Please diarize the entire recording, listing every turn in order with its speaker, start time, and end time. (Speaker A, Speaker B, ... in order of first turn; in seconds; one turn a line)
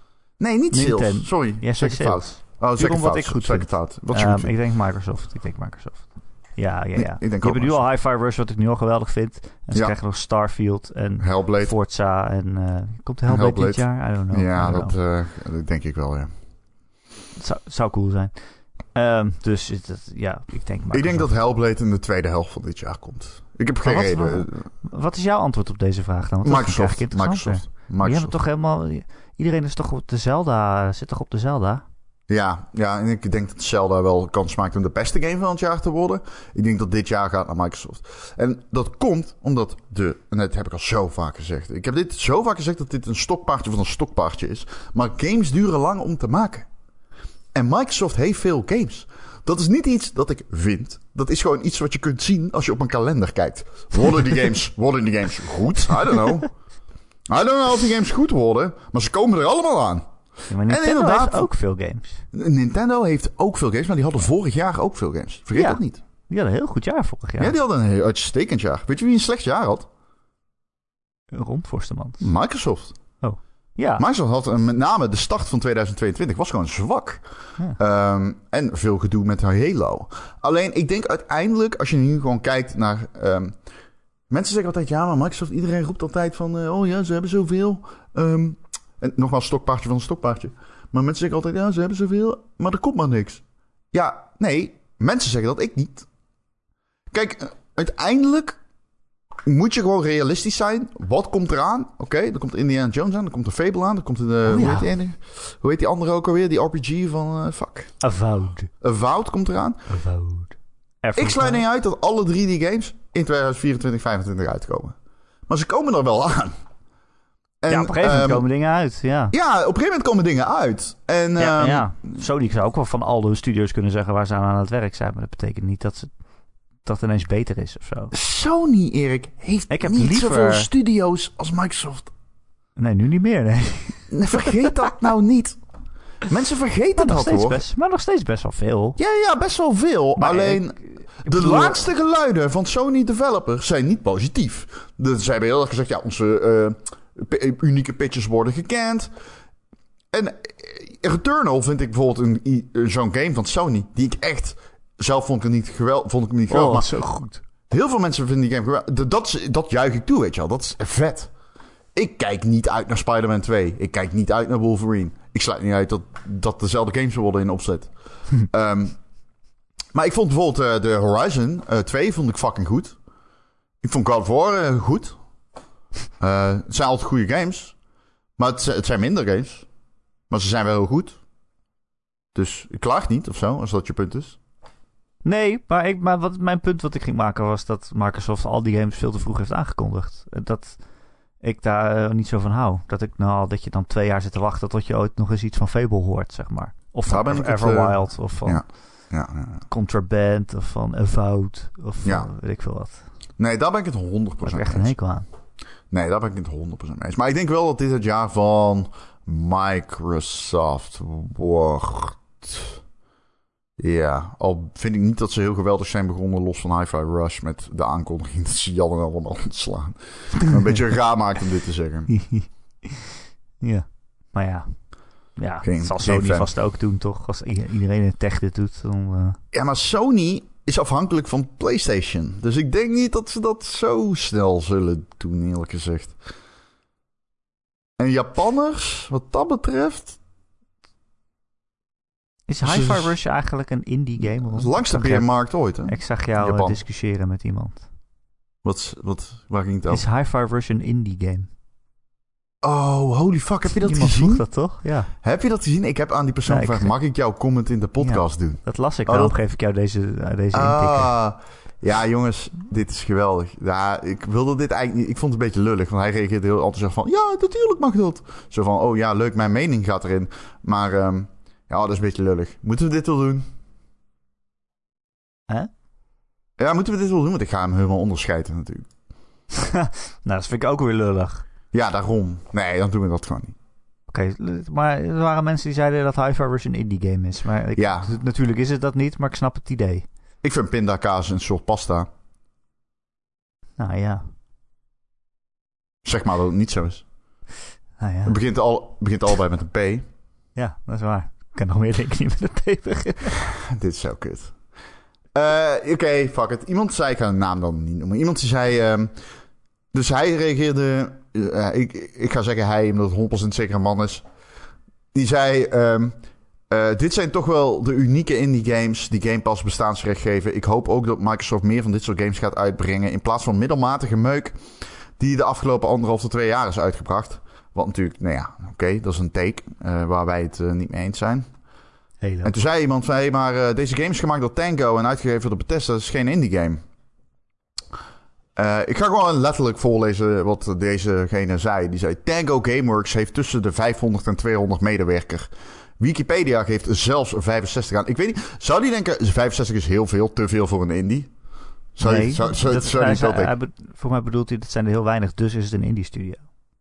Speaker A: 0.4-4.5
Speaker B: 0.7-14.9
Speaker A: 7.0-7.8
Speaker A: 11.2-11.7
Speaker A: 13.3-16.3
Speaker B: 17.4-21.3
Speaker A: 20.9-24.7
Speaker B: 23.8-31.8
Speaker A: 26.4-28.3
Speaker A: 32.3-46.7
Speaker A: 47.5-56.5
Speaker A: 57.3-60.0
Speaker B: 60.5-62.2
Speaker A: 60.7-61.5
Speaker A: 62.3-66.0
Speaker B: 65.5-67.6
Speaker A: 67.4-69.9
Speaker B: 71.3-72.3
Speaker A: 72.2-73.0
Speaker B: 73.2-74.0
Speaker A: 74.0-77.2
Speaker A: 77.8-83.6
Speaker A: 84.3-96.1
Speaker A: 97.1-98.6
Speaker A: 99.5-107.9
Speaker B: 104.5-104.9
Speaker B: 108.0-108.7
Speaker A: 108.8-109.9
Speaker B: 109.9-111.6
Speaker A: 111.1-115.0
Speaker A: 115.5-116.5
Speaker A: 117.6-118.5
Speaker B: 117.7-119.3
Speaker A: 119.3-121.9
Speaker B: 121.4-126.2
Speaker B: 126.8-128.1
Speaker A: 128.1-132.1
Speaker B: 129.7-130.7
Speaker B: 132.8-134.1
Speaker A: 134.1-135.6
Speaker A: 136.3-137.6
Speaker B: 137.0-139.0
Speaker A: 139.0-149.1
Speaker B: 140.2-141.8
Speaker A: 150.1-156.9
Speaker B: 156.5-157.4
Speaker A: 157.7-161.3
Speaker A: 161.9-169.0
Speaker A: 169.9-173.0
Speaker A: 173.8-175.2
Speaker A: 176.2-177.8
Speaker A: 178.4-179.7
Speaker A: 180.3-181.2
Speaker A: 182.3-184.4
Speaker B: 185.2-190.8
Speaker B: 191.4-199.1
Speaker A: 197.1-199.6
Speaker B: 199.7-203.1
Speaker A: 202.0-202.3
Speaker A: 203.4-204.9
Speaker B: 204.4-205.3
Speaker A: 205.9-212.8
Speaker A: 213.8-222.1
Speaker B: 222.1-222.9
Speaker B: 223.6-229.4
Speaker A: 225.6-226.5
Speaker A: 229.5-236.2
Speaker A: 238.0-240.2
Speaker B: 242.5-247.9
Speaker A: 242.6-243.1
Speaker A: 244.3-246.8
Speaker A: 248.6-250.1
Speaker B: 249.9-251.5
Speaker A: 252.6-254.4
Speaker B: 253.7-255.1
Speaker A: 255.2-259.3
Speaker B: 256.5-256.9
Speaker B: 258.0-261.1
Speaker A: 260.5-273.5
Speaker A: 276.6-278.9
Speaker B: 279.5-281.4
Speaker A: 281.7-283.6
Speaker B: 284.1-290.1
Speaker A: 287.8-288.2
Speaker A: 290.4-292.1
Speaker B: 293.8-294.2
Speaker A: 296.0-297.0
Speaker B: 298.0-298.4
Speaker A: 298.3-300.0
Speaker B: 300.6-303.4
Speaker A: 303.6-304.6
Speaker A: 305.3-309.2
Speaker A: 309.9-314.3
Speaker A: 315.1-316.1
Speaker A: 316.7-324.6
Speaker A: 325.2-331.5
Speaker B: 332.2-332.5
Speaker A: 332.4-336.8
Speaker A: 338.6-351.3
Speaker A: 351.9-353.6
Speaker B: 352.0-356.4